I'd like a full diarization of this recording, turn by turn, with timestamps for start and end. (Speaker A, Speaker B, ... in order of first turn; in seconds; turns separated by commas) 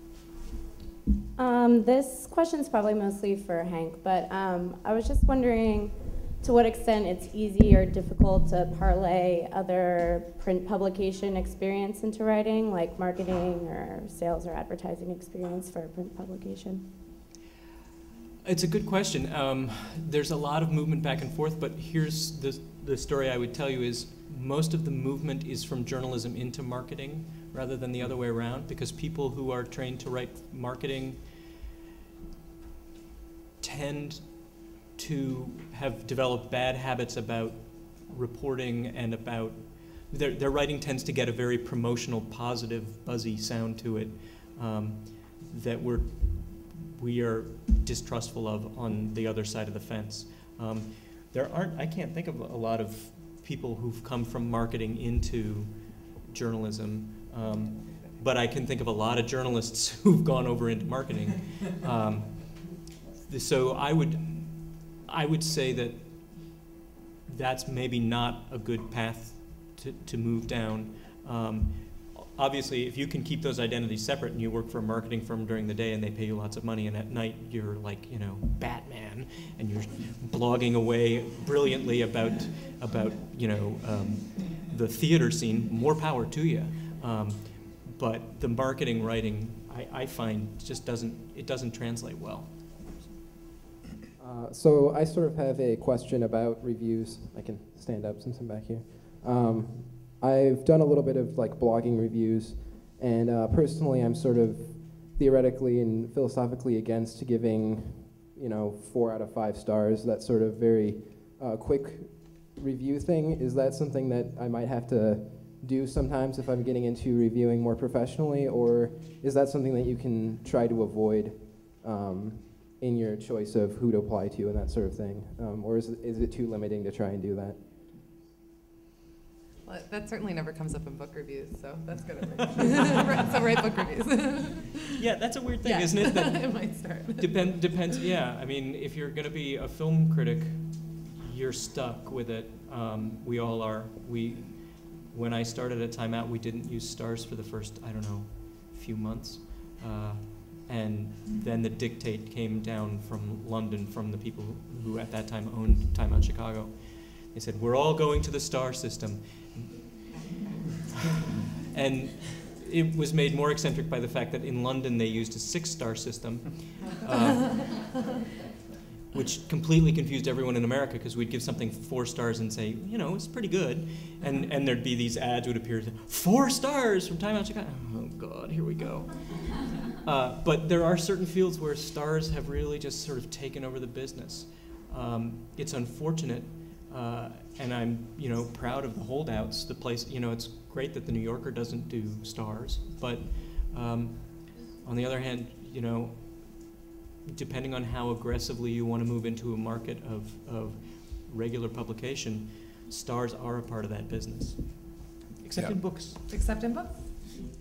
Speaker A: 1.4-16.9, Speaker B: 18.4-31.3, Speaker B: 33.6-66.6, Speaker B: 67.3-93.1, Speaker C: 94.2-127.7, Speaker D: 129.7-134.9, Speaker B: 132.6-133.0, Speaker B: 134.9-160.2, Speaker D: 135.6-137.8, Speaker B: 161.1-167.9, Speaker B: 169.1-196.7, Speaker B: 197.3-206.2, Speaker D: 206.3-207.2